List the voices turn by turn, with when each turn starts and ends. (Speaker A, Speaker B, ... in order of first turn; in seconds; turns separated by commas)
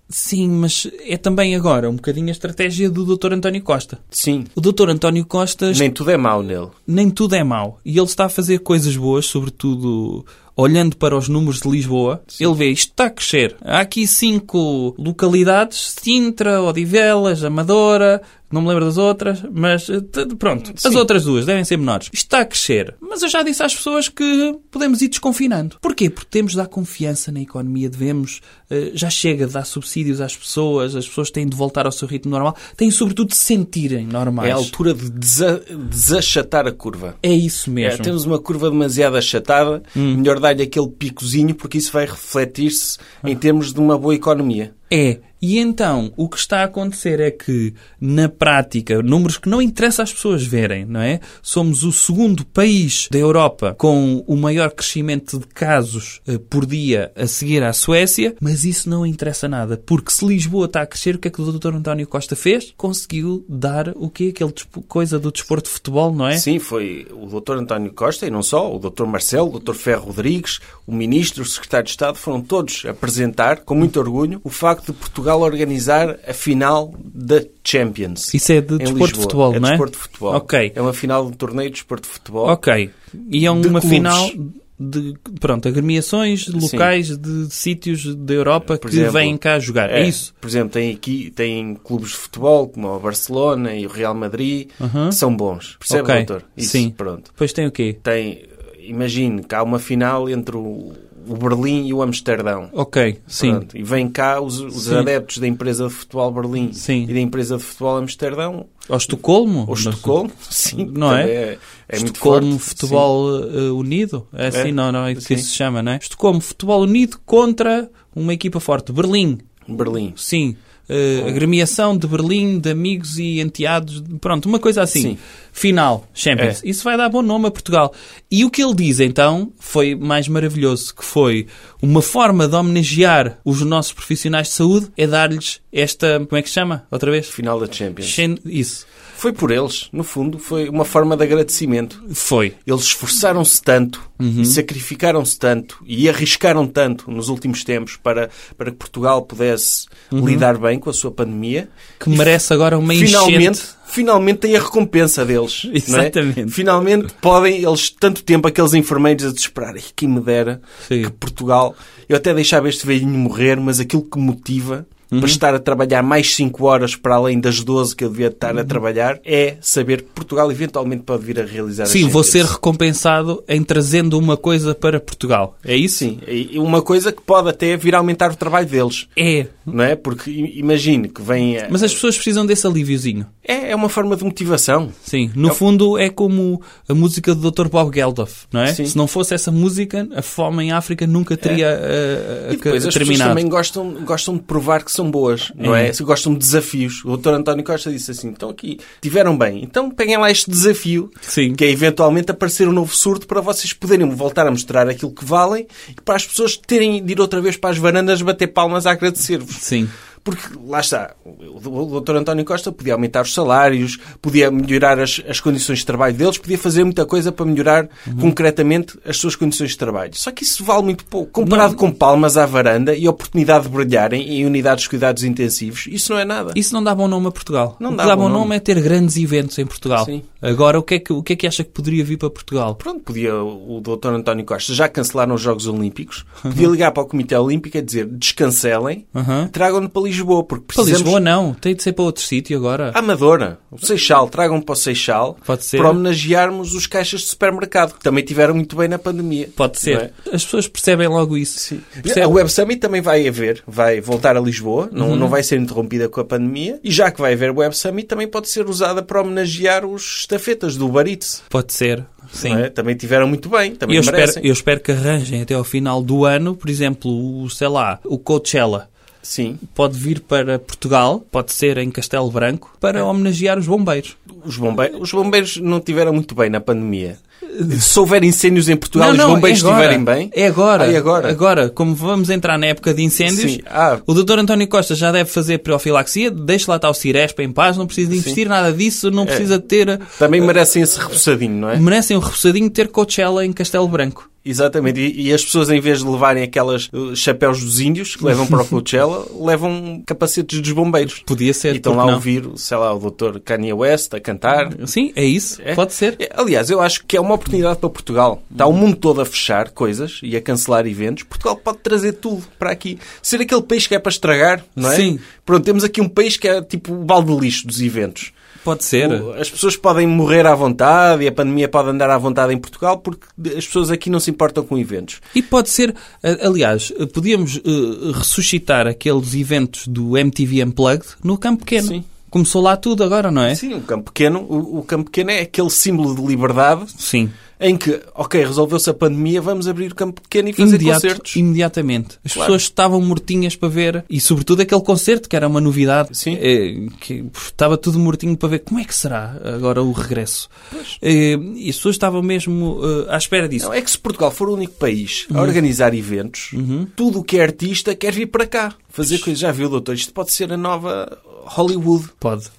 Speaker A: 0.1-4.0, Speaker B: 4.1-4.5, Speaker A: 4.5-5.9, Speaker B: 5.7-6.8, Speaker A: 6.9-34.7, Speaker B: 34.4-37.2, Speaker A: 37.2-38.1, Speaker B: 37.8-44.7, Speaker A: 40.0-40.2, Speaker A: 44.9-66.5, Speaker B: 66.3-82.6, Speaker A: 78.3-80.7, Speaker A: 82.4-90.3, Speaker B: 83.5-84.3, Speaker B: 86.5-86.9, Speaker B: 88.8-97.3, Speaker A: 94.8-95.2, Speaker A: 95.9-98.0, Speaker B: 98.0-102.7, Speaker A: 102.7-103.6, Speaker B: 103.3-108.7, Speaker A: 104.8-105.1, Speaker A: 106.8-107.1, Speaker A: 108.9-110.2, Speaker B: 109.7-113.1, Speaker A: 110.7-111.3, Speaker A: 112.0-119.5, Speaker B: 114.5-115.5, Speaker B: 119.7-120.2, Speaker A: 120.2-137.3, Speaker B: 124.9-125.2, Speaker B: 137.3-138.2, Speaker A: 138.0-138.9, Speaker B: 139.2-142.1, Speaker A: 142.1-142.6, Speaker B: 142.7-172.5, Speaker A: 144.2-144.6, Speaker A: 150.1-150.5, Speaker A: 152.0-153.7, Speaker A: 155.7-156.6, Speaker A: 160.8-161.1, Speaker A: 165.1-165.4, Speaker A: 171.8-176.1, Speaker B: 175.9-179.1, Speaker A: 179.2-179.7, Speaker B: 179.7-182.0, Speaker A: 181.7-183.3, Speaker B: 183.4-185.6, Speaker A: 185.1-193.4, Speaker B: 188.7-189.0, Speaker B: 192.5-209.6, Speaker A: 195.6-195.9, Speaker A: 201.3-201.6, Speaker A: 209.6-209.9, Speaker B: 210.2-226.6, Speaker A: 218.1-218.3, Speaker A: 221.4-221.8, Speaker A: 226.5-232.8, Speaker B: 227.8-228.5, Speaker B: 232.8-241.2, Speaker A: 239.1-239.5, Speaker A: 240.8-243.0, Speaker B: 242.9-250.1, Speaker A: 245.4-246.0, Speaker A: 249.6-252.3, Speaker B: 251.6-261.4, Speaker A: 255.0-255.3, Speaker A: 261.5-262.7, Speaker B: 262.4-264.5, Speaker A: 263.9-268.9, Speaker B: 269.2-269.6, Speaker A: 269.6-274.2, Speaker B: 274.4-281.4, Speaker A: 278.9-290.2, Speaker B: 283.2-284.1, Speaker B: 288.1-288.4, Speaker B: 289.2-289.5, Speaker B: 290.1-291.9, Speaker A: 291.7-294.3, Speaker B: 294.4-304.8, Speaker A: 301.2-302.2, Speaker A: 304.7-306.2, Speaker B: 305.6-318.3, Speaker A: 314.8-315.2, Speaker A: 318.6-319.3, Speaker B: 319.0-325.2, Speaker A: 325.3-333.6, Speaker B: 331.8-332.0, Speaker B: 333.5-336.9, Speaker A: 337.0-337.4, Speaker B: 337.6-341.4, Speaker A: 340.6-353.7, Speaker B: 342.3-342.6, Speaker B: 346.1-346.4, Speaker B: 350.7-351.0, Speaker B: 353.6-362.1, Speaker A: 355.3-355.6, Speaker A: 356.5-356.9, Speaker A: 362.2-362.5